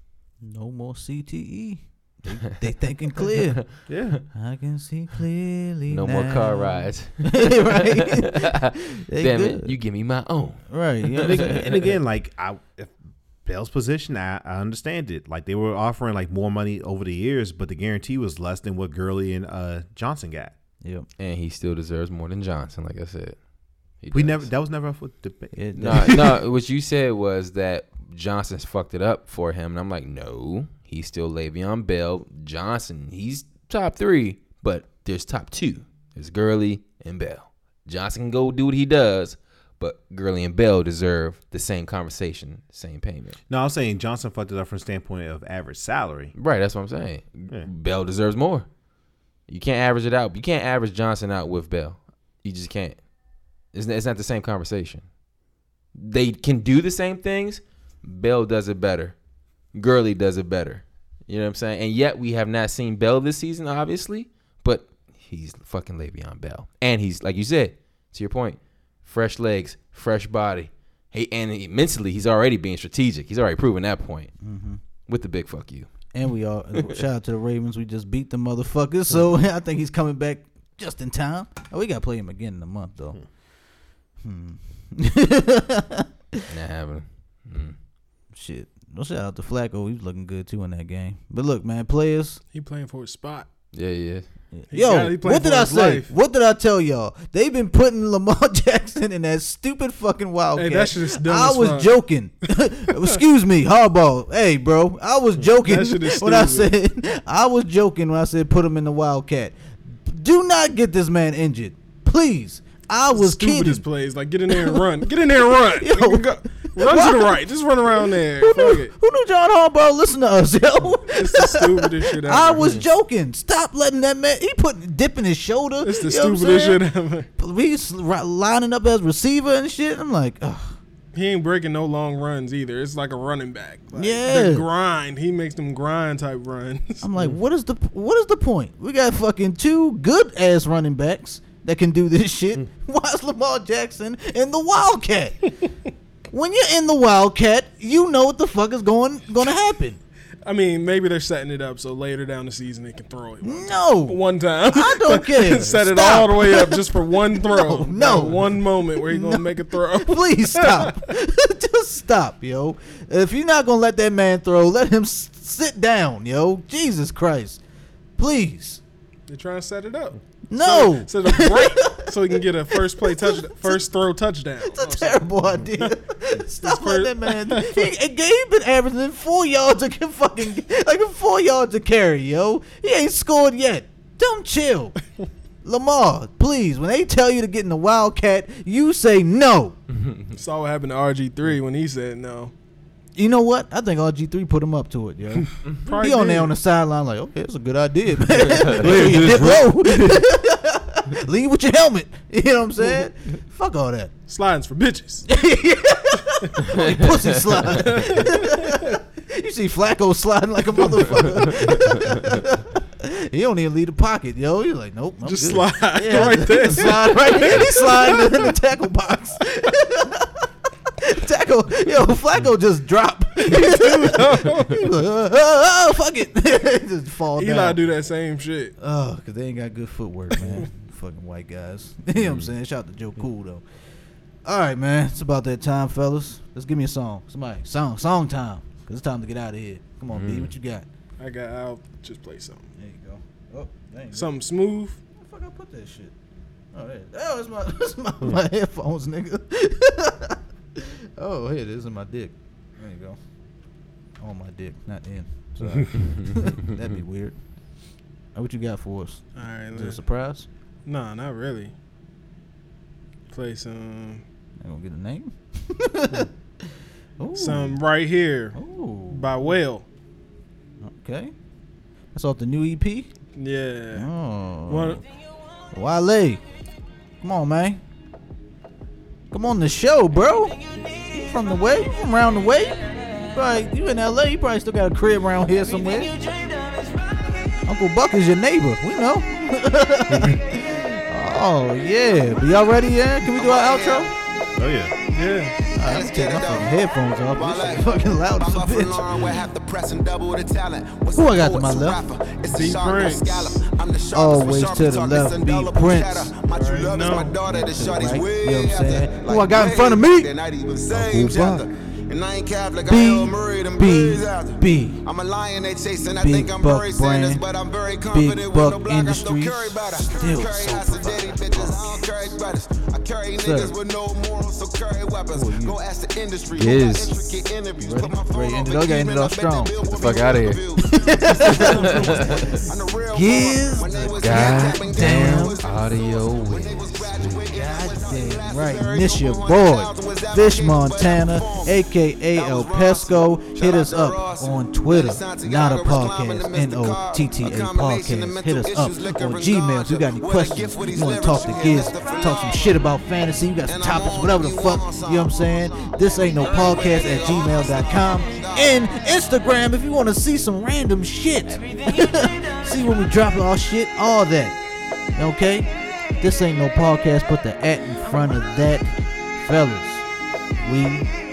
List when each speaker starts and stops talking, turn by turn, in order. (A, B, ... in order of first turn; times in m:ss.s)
0:00.4-0:03.6 A
0:03.3-0:03.6 B
0:03.9-0:04.2 C
0:04.3-0:09.7 A
0:05.9-0:11.7 B
0:10.7-0:11.9 A
0:11.2-0:12.9 C
0:13.4-0:20.5 C
0:21.2-0:23.4 B
0:24.0-0:24.5 B
0:24.1-0:26.3 C
0:25.5-0:26.2 A
0:25.8-0:43.4 B
0:43.5-0:46.3 C
0:46.4-0:48.7 B
0:49.5-0:53.0 B
0:53.7-0:55.0 B
0:55.9-0:59.2 B
0:59.7-1:14.3 B
1:14.4-1:14.8 A
1:15.1-1:15.9 B
1:16.1-1:23.2 A
1:24.2-1:26.4 A
1:26.5-1:27.8 B
1:28.3-1:32.4 A
1:32.5-1:33.5 D
1:33.7-1:34.2 B
1:34.5-1:53.8 A
1:34.7-1:36.1 D
1:40.5-1:41.9 D
1:42.5-1:43.2 D
1:45.4-1:46.7 D
1:53.1-1:58.9 D
1:54.5-1:55.0 A
1:55.8-1:57.5 A
1:58.4-2:06.8 A
2:01.0-2:02.8 D
2:05.8-2:07.3 D
2:07.4-2:10.8 A
2:11.1-2:17.0 D
2:13.9-2:14.7 A
2:17.0-2:25.6 A
2:26.3-2:30.0 A
2:30.4-2:41.1 D
2:33.4-2:47.6 A
2:48.2-2:48.8 A
2:49.3-2:55.9 D
2:50.5-2:53.8 A
2:54.6-3:05.0 A
2:56.6-2:57.9 D
3:05.6-3:09.8 A
3:09.9-3:10.3 B
3:10.3-3:12.5 D
3:13.2-3:24.1 A
3:15.8-3:16.5 D
3:18.8-3:20.3 C
3:22.8-3:23.1 D
3:24.3-3:25.3 D
3:25.3-3:47.8 A
3:26.7-3:27.6 B
3:27.7-3:29.0 D
3:35.2-3:38.5 D
3:43.4-3:45.0 D
3:47.4-3:48.7 D
3:48.8-3:53.6 A
3:50.4-3:50.6 D
3:52.2-3:52.4 C
3:54.4-4:00.9 A
4:00.1-4:00.5 B
4:01.2-4:02.7 D
4:02.8-4:04.3 A
4:04.1-4:05.0 D
4:05.2-4:06.1 A
4:06.7-4:13.2 A
4:14.2-4:17.4 A
4:16.0-4:16.6 B
4:18.3-4:20.5 A
4:19.4-4:20.0 D
4:20.8-4:21.7 D
4:23.3-4:24.2 D
4:24.6-4:26.7 A
4:27.2-4:27.8 A
4:27.4-4:28.6 D
4:28.5-4:29.3 A
4:29.1-4:29.8 D
4:30.8-4:31.3 A
4:32.1-4:33.1 A
4:33.4-4:34.1 D
4:33.9-4:35.0 A
4:34.7-4:35.0 D
4:35.7-4:36.4 A
4:37.2-4:37.8 A
4:39.3-4:46.1 A
4:47.6-4:54.1 A
4:50.1-4:50.4 C
4:53.3-4:54.1 E
4:54.6-4:54.9 C
4:55.1-4:55.6 D
4:55.7-4:59.0 A
4:55.7-5:41.8 E
5:01.1-5:02.1 A
5:02.5-5:03.6 D
5:04.1-5:06.3 A
5:06.5-5:07.4 D
5:07.4-5:10.3 A
5:10.9-5:11.6 A
5:12.8-5:15.0 A
5:16.2-5:17.4 A
5:18.1-5:22.1 A
5:23.4-5:23.8 A
5:25.3-5:25.8 A
5:26.5-5:27.3 B
5:27.8-5:29.8 A
5:29.9-5:30.6 B
5:30.8-5:35.6 A
5:31.4-5:32.6 B
5:34.1-5:37.5 B
5:37.5-6:04.6 A
5:42.3-5:52.9 E
5:53.7-5:58.9 E
6:05.1-6:05.7 A
6:06.2-6:10.0 A
6:10.6-6:11.1 A